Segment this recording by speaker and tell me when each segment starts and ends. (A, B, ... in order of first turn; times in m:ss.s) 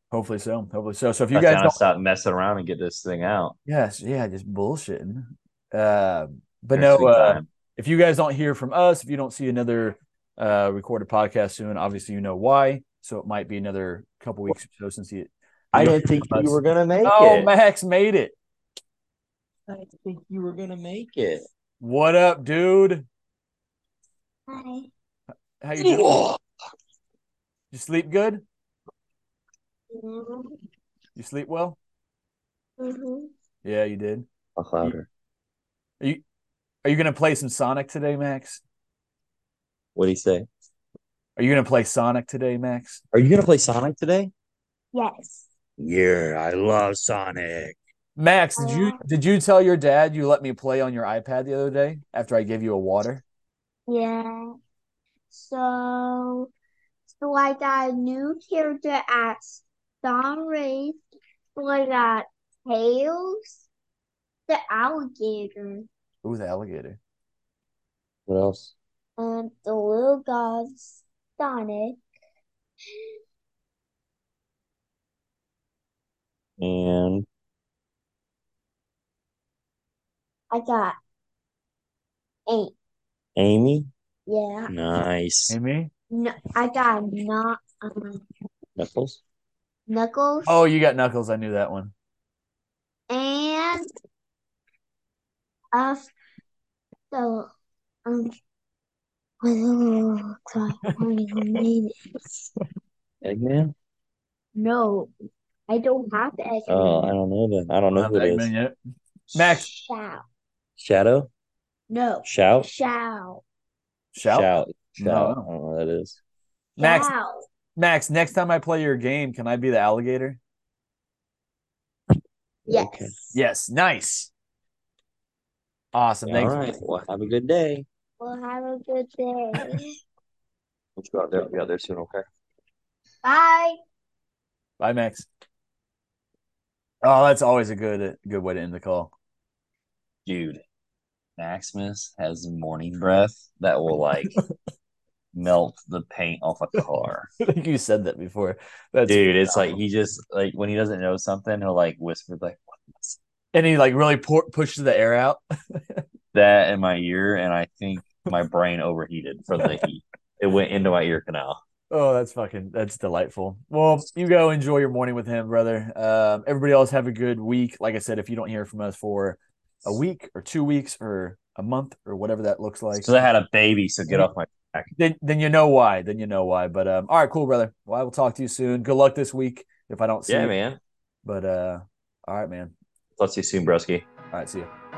0:00.1-0:01.8 A
0:01.3-0:03.5 B
0:03.6-0:18.3 A
0:06.7-0:07.5 B
0:15.7-0:17.5 B
0:19.7-0:21.4 B
0:21.8-0:23.0 A
0:24.5-0:24.9 C
0:25.6-0:26.2 A
0:25.8-0:26.4 B
0:27.7-0:28.4 A
0:29.9-0:30.6 C
0:31.2-0:31.8 A
0:32.8-0:33.3 C
0:33.6-0:34.2 A
0:34.6-0:35.1 B
0:36.8-0:38.6 A
0:39.9-0:40.5 B
0:41.4-0:43.0 A
0:43.1-0:44.3 B
0:44.9-0:45.5 C
0:45.8-0:47.8 B
0:48.2-0:53.2 A
0:48.6-0:49.0 C
0:53.9-0:54.5 C
0:55.3-0:56.5 C
0:57.1-1:01.0 C
1:01.6-1:03.6 C
1:04.5-1:05.9 C
1:06.2-1:07.0 A
1:08.3-1:08.7 B
1:09.2-1:12.0 C
1:16.6-1:17.2 B
1:20.5-1:20.9 C
1:22.5-1:22.7 C
1:23.4-1:23.9 B
1:24.3-1:24.7 C
1:24.7-1:25.5 B
1:25.5-1:25.9 A
1:26.1-1:28.2 C
1:28.8-1:29.2 B
1:29.9-1:30.6 C
1:30.4-1:31.9 A
1:33.1-1:33.9 C
1:35.7-1:36.1 C
1:37.1-1:37.5 C
1:38.0-1:38.3 C
1:39.4-1:41.9 C
1:43.2-1:43.7 B
1:44.5-1:45.1 C
1:45.7-1:47.2 C
1:46.7-1:48.5 B
1:48.0-1:48.7 A
1:49.3-1:49.8 B
1:49.3-1:49.7 A
1:49.9-1:50.2 C
1:50.8-1:51.3 B
1:51.9-1:53.4 C
1:52.2-1:52.7 B
1:54.1-1:55.4 A
1:54.3-1:56.2 B
1:56.8-1:57.1 A
1:56.8-1:57.4 C
1:57.7-2:00.4 A
2:02.6-2:03.3 B
2:02.7-2:02.9 C
2:03.3-2:04.3 A
2:05.9-2:06.6 A
2:06.3-2:07.8 B
2:08.2-2:10.0 C
2:11.0-2:12.2 B
2:13.2-2:13.8 C
2:14.8-2:15.3 A
2:17.0-2:19.1 A
2:20.2-2:20.6 B
2:21.4-2:24.3 B
2:25.3-2:27.3 B
2:27.4-2:29.8 A
2:29.1-2:33.2 B
2:33.5-2:36.0 A
2:36.3-2:41.6 B
2:41.9-2:53.2 A
2:52.9-2:54.9 B
2:54.9-3:00.5 A
3:00.3-3:00.8 B
3:01.2-3:02.7 A
3:03.2-3:04.0 B
3:04.3-3:04.7 A